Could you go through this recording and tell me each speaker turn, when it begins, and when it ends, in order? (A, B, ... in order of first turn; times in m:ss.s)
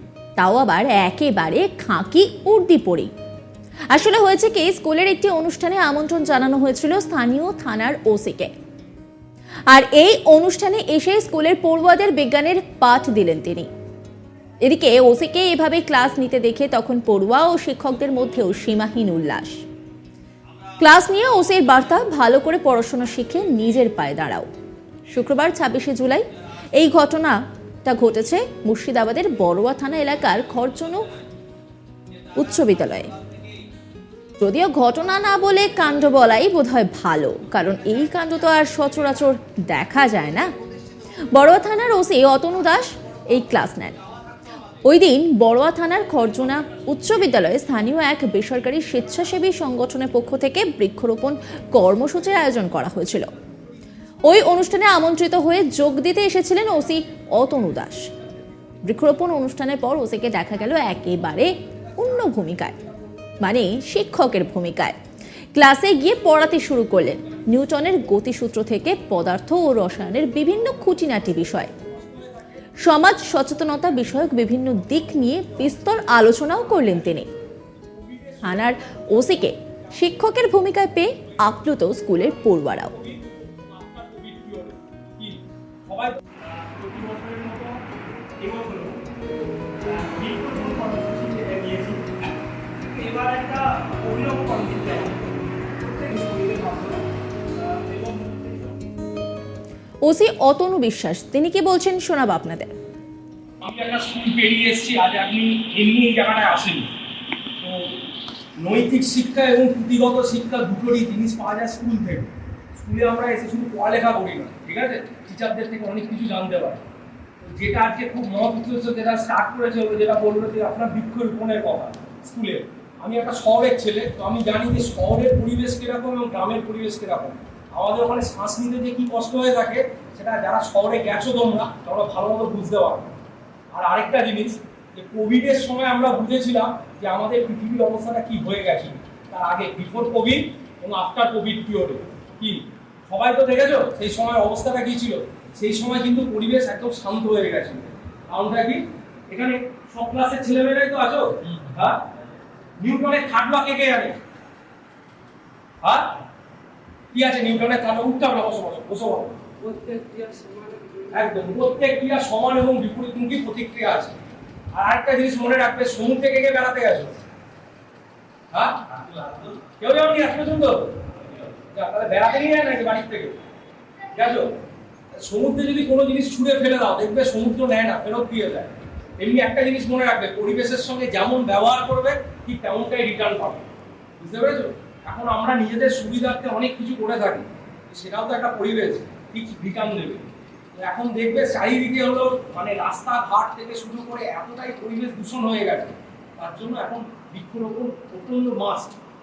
0:00.4-0:03.1 A
0:03.9-0:08.5 A
0:09.7-0:13.7 A
0:14.6-0:19.6 A
0:20.8-0:24.5 A
0:25.1-0:26.2 A
0:26.8-0:31.1 A
0:32.4-0:33.1 A
0:34.4-0:40.5 A
0:41.3-0:44.0 A
0:44.8-0:53.3 A
0:54.2-0:58.0 A
0:58.9-1:02.8 A
1:01.9-1:03.4 B
1:03.4-1:05.0 A
1:05.6-1:11.7 A
1:10.9-1:17.0 B
1:12.8-1:17.3 A
1:17.8-1:20.3 B
1:18.4-1:22.9 A
1:21.2-1:21.4 B
1:22.0-1:27.8 B
1:28.4-1:29.0 B
1:29.9-1:32.1 B
1:32.8-1:37.0 B
1:37.6-1:38.7 B
1:40.0-1:42.7 A
1:43.6-1:46.9 B
1:47.6-1:48.0 B
1:48.6-1:56.8 B
1:57.4-2:13.1 B
2:13.7-2:32.1 B
2:32.8-2:34.2 B
2:35.8-2:36.2 B
2:37.1-2:44.2 B
2:44.7-2:47.2 B
2:48.5-2:53.4 B
2:54.1-2:54.5 B
2:55.1-3:19.0 B